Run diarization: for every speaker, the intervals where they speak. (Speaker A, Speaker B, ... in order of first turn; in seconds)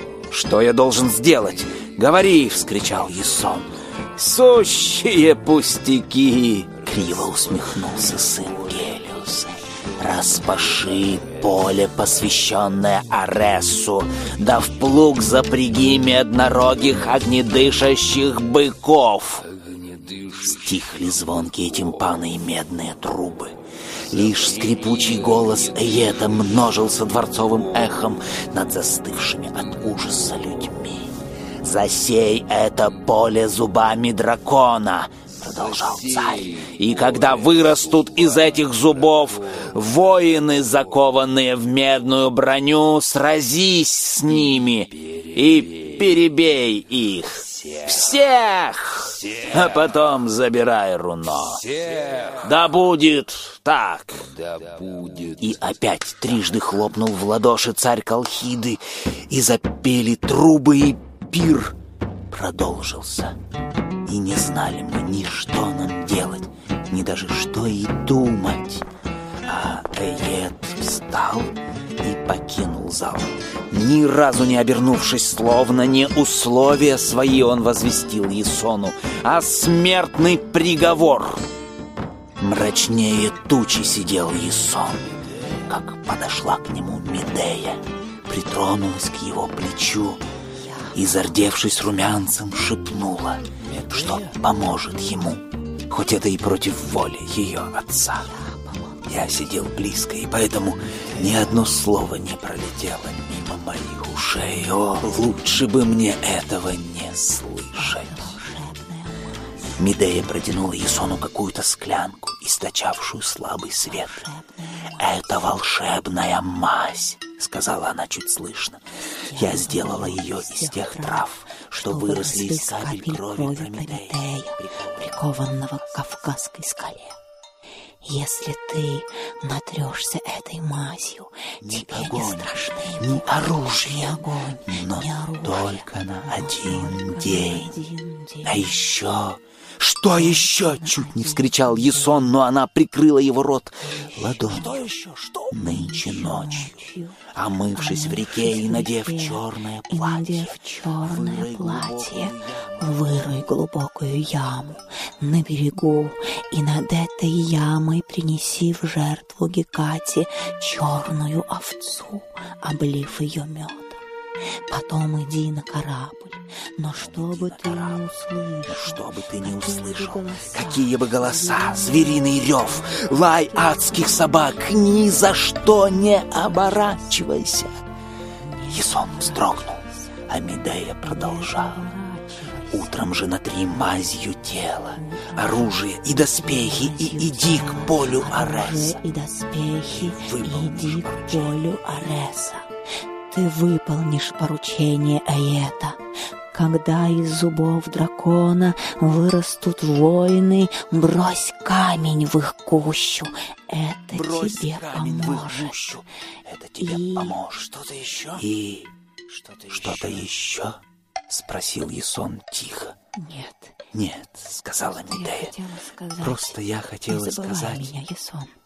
Speaker A: 0.3-23.5, 24.1-61.8, 62.3-63.4, 64.1-68.9, 69.5-81.5, 82.4-90.2, 90.9-98.3, 99.1-108.4, 109.8-114.3, 115.0-118.8, 119.3-126.2, 131.6-137.8, 138.4-153.4, 166.9-168.2, 168.7-177.8, 178.7-181.9, 182.7-189.1, 189.9-192.1, 204.1-212.9, 213.9-215.6, 216.2-217.9
Speaker B: 90.6-91.0, 98.2-99.1, 107.8-109.5, 113.9-115.2, 119.3-127.2, 128.0-138.7, 140.1-142.3, 143.8-144.9, 145.5-147.2, 147.7-164.0, 164.7-177.3, 178.4-180.2, 181.0-182.9, 184.9-192.7, 193.3-196.0, 196.5-206.0, 206.8-207.4, 213.2-213.8, 214.9-218.6